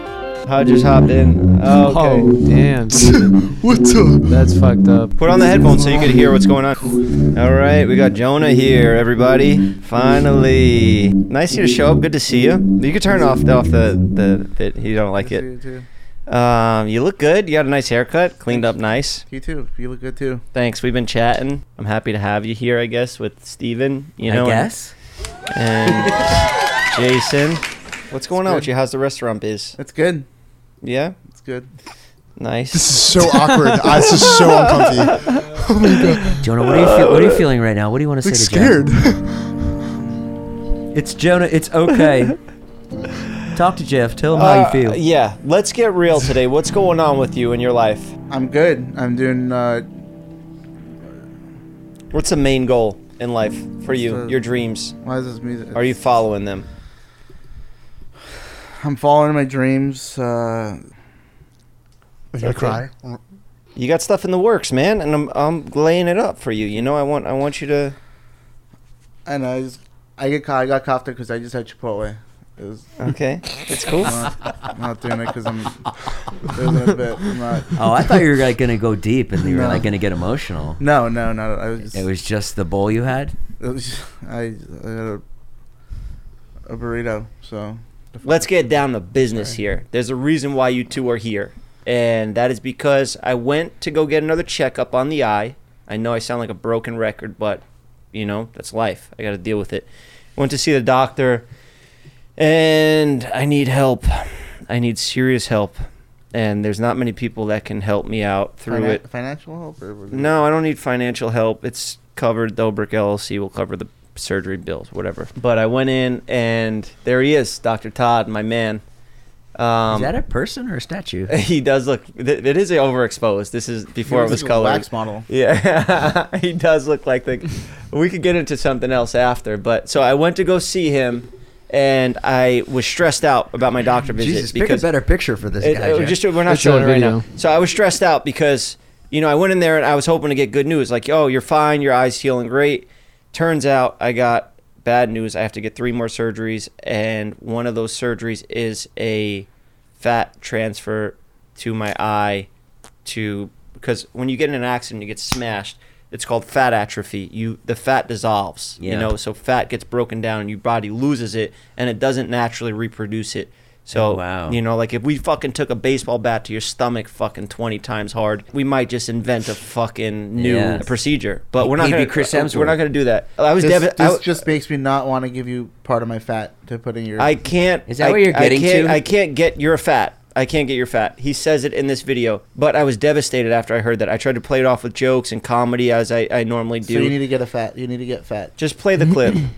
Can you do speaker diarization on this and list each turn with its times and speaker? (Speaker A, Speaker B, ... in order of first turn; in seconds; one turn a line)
Speaker A: 0.4-2.4
Speaker B: 1.8-3.4
Speaker C: 2.9-4.4
Speaker B: 4.2-5.8
Speaker A: 5.2-15.5
Speaker D: 15.2-15.8
Speaker A: 16.3-19.2
Speaker D: 18.5-20.4
Speaker A: 20.5-24.7
Speaker E: 24.2-24.9
Speaker A: 25.5-29.7
Speaker D: 28.4-28.7
Speaker D: 29.8-30.2
Speaker A: 30.8-31.1
Speaker D: 31.3-31.7
Speaker A: 32.4-33.0
Speaker C: 32.7-36.2
Speaker A: 33.9-35.4
Speaker A: 36.3-37.4
Speaker E: 36.4-38.8
Speaker C: 38.2-39.7
Speaker E: 40.9-42.4
Speaker E: 43.5-45.0
Speaker A: 44.3-48.1
Speaker D: 48.3-49.9
Speaker A: 52.1-54.9
Speaker D: 53.9-54.4
Speaker D: 55.0-55.9
Speaker A: 55.7-56.6
Speaker D: 58.8-60.8
Speaker C: 62.3-63.2
Speaker A: 62.4-62.8
Speaker A: 63.8-67.9
Speaker D: 69.2-72.9
Speaker A: 73.0-74.2
Speaker D: 74.0-77.7
Speaker E: 77.7-80.8
Speaker D: 79.4-79.9
Speaker D: 80.8-82.0
Speaker E: 81.9-83.3
Speaker D: 83.6-85.2
Speaker D: 86.7-88.8
Speaker A: 88.2-101.5
Speaker A: 102.4-105.8
Speaker A: 106.3-109.0
Speaker D: 108.7-110.4
Speaker A: 110.1-118.8
Speaker A: 119.5-120.1
Speaker E: 119.9-121.3
Speaker A: 121.3-134.9
Speaker D: 124.0-125.2
Speaker E: 134.1-136.2
Speaker A: 135.6-149.5
Speaker B: 136.4-137.2
Speaker A: 150.0-152.5
Speaker A: 153.0-174.3
Speaker E: 158.8-159.1
Speaker E: 163.9-164.6
Speaker E: 170.3-170.9
Speaker E: 171.6-172.8
Speaker D: 173.6-177.3
Speaker A: 177.2-187.1
Speaker E: 177.9-179.0
Speaker D: 186.8-188.5
Speaker A: 188.6-189.4